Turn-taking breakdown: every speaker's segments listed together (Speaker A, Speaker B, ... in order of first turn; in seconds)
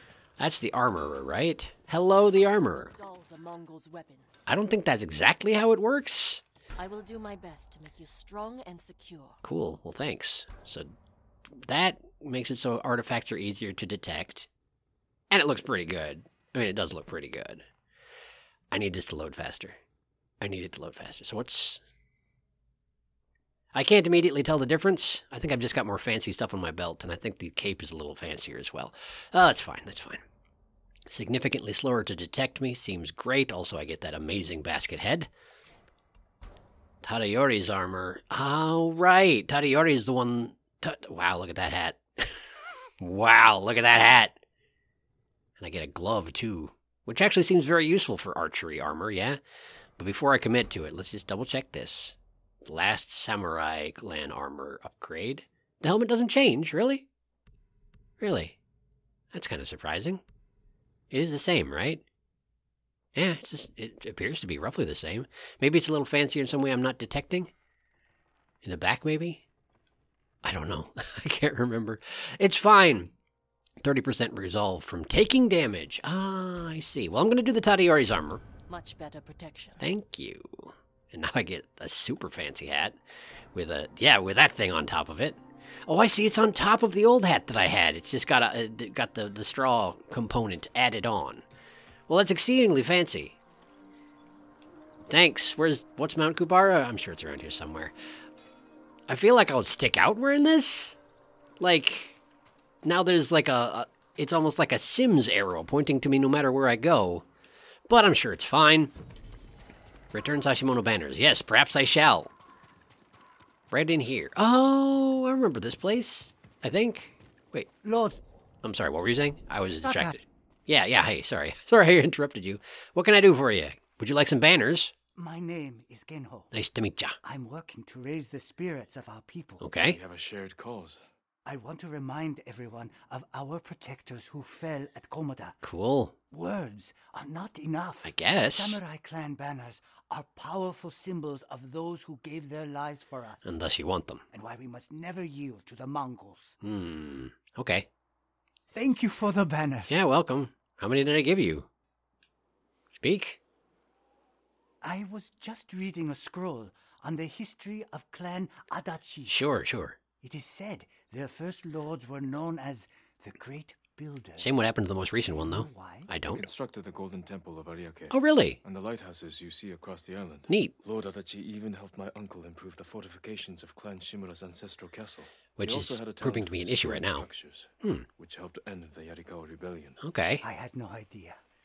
Speaker A: 0.4-2.9, 4.5-6.4, 9.4-10.9, 11.6-14.5, 15.3-17.7, 18.7-19.8, 20.4-21.8, 23.7-30.2, 31.1-35.3, 37.0-42.4, 43.0-44.4, 45.6-49.4, 50.0-57.0, 58.2-58.6, 59.3-60.2, 61.1-62.0, 63.1-67.5, 68.6-69.4, 70.4-73.1, 73.8-78.4, 79.8-83.0, 83.5-91.5, 92.1-93.3, 95.1-97.9, 99.1-101.0, 101.6-102.2, 102.8-107.2, 107.9-108.9, 110.1-112.3, 113.7-117.7, 118.6-124.9, 126.5-127.2, 129.6-130.0, 135.6-136.1, 138.1-138.8, 143.4-144.2, 146.6-147.9, 149.9-151.7, 153.0-153.4, 159.3-160.0, 164.4-166.5, 168.1-168.6, 170.5-170.7, 175.6-177.3, 180.0-180.4
Speaker B: 2.8-4.5, 6.8-9.4, 78.7-79.8
Speaker C: 117.8-118.2, 119.8-120.2, 125.2-126.5, 127.2-129.7, 131.4-135.6, 136.3-143.6, 144.3-146.6, 148.7-150.0, 154.8-159.4, 160.2-164.6, 165.3-166.1, 180.4-181.4
Speaker D: 129.8-131.1, 166.3-180.0